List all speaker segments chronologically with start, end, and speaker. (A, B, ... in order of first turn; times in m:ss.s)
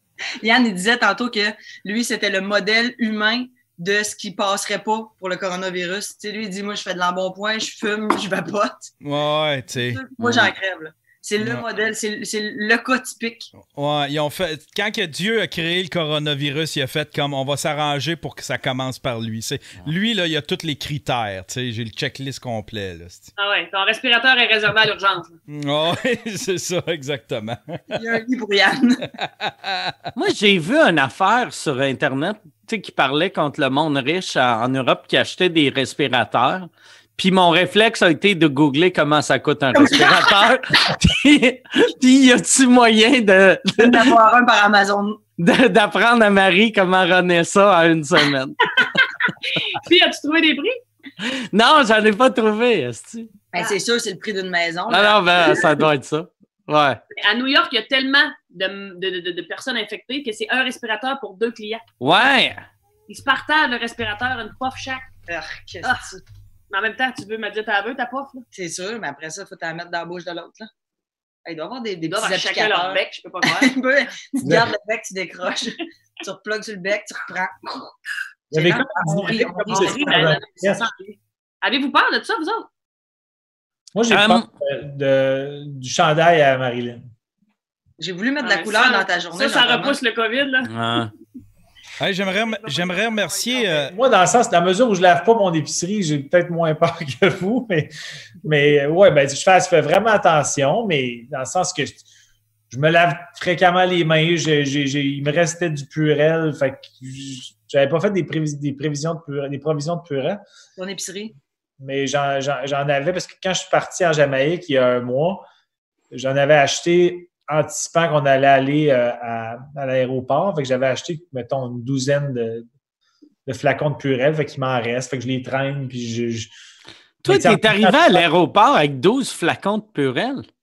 0:00.4-0:08.9 A
0:09.0-0:10.0 B
0:09.8-0:13.5 A
0:11.4-0:11.6 B
0:13.6-0:23.3 B
0:23.4-0:25.4 C
0:25.5-0:27.8 B
0:27.9-0:29.1 A
0:29.2-0:30.0 B
0:30.2-0:44.2 D
0:39.7-0:40.5 A
0:43.8-0:45.2 A
0:45.4-0:49.0 D
0:48.8-0:50.8 C
0:51.2-0:53.3 D
0:53.5-0:55.6 A
0:54.9-0:57.0 D
0:57.1-1:01.8 C
1:02.0-1:02.6 D
1:03.1-1:05.1 C
1:05.3-1:06.2 A
1:06.7-1:08.4 C
1:08.5-1:10.7 A
1:11.4-1:18.0 A
1:12.1-1:13.8 C
1:14.4-1:14.7 E
1:18.5-1:20.9 E
1:18.5-1:21.2 A
1:19.7-1:20.9 C
1:21.6-1:22.7 C
1:24.0-1:27.0 E
1:24.1-1:24.4 D
1:28.0-1:30.0 A
1:28.4-1:30.7 C
1:30.6-1:31.1 D
1:32.0-1:33.9 B
1:33.9-1:42.0 E
1:42.7-1:50.4 E
1:50.8-1:51.3 A
1:51.8-1:55.4 E
1:56.1-2:02.7 E
2:03.5-2:06.5 E
2:07.2-2:10.4 D
2:07.3-2:08.2 E